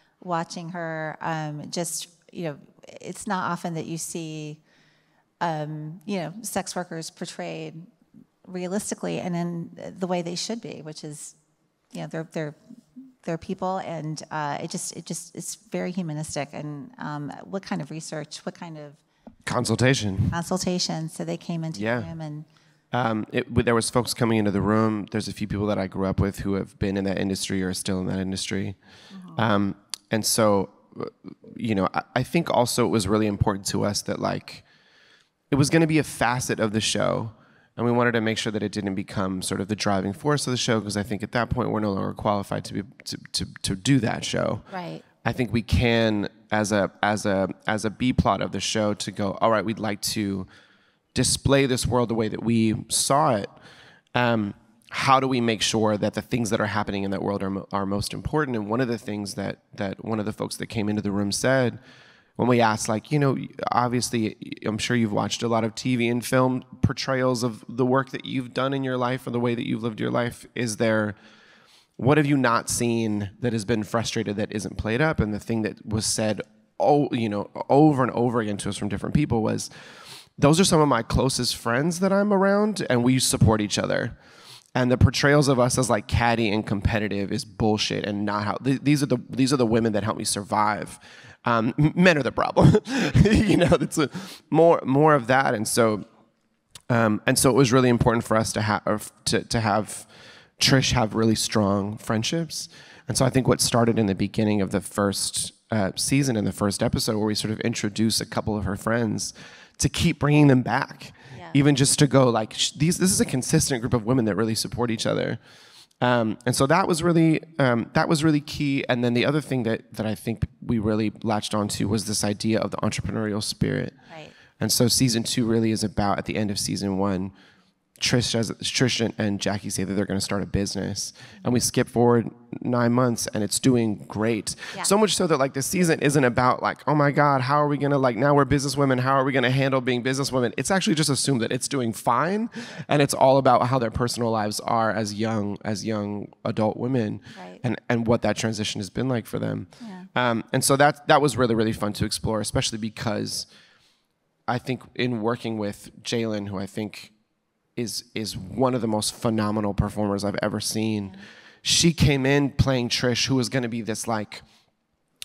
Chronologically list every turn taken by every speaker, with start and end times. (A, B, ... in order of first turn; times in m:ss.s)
0:00.2-0:04.6 A
0:05.4-0:07.9 A
0:08.5-0:11.4 A
0:11.9-0:12.6 A
0:13.2-0:19.0 A
0:19.5-0:20.4 B
0:20.3-0:22.5 A
0:21.8-0:22.1 B
0:22.9-0:28.8 B
0:29.1-0:29.4 A
0:29.4-0:34.6 B
0:35.5-0:44.7 B
0:44.7-0:45.0 A
0:45.2-0:50.5 B
0:51.1-0:53.6 B
0:54.1-1:01.8 B
1:02.4-1:11.2 B
1:12.0-1:19.7 B
1:20.4-1:24.2 B
1:24.8-1:36.1 B
1:36.9-1:55.4 B
1:51.3-1:51.6 A
1:56.0-2:04.0 B
2:04.6-2:07.4 B
2:08.0-2:33.5 B
2:27.4-2:27.6 A
2:29.8-2:30.1 A
2:34.5-2:37.1 B
2:37.8-2:44.4 B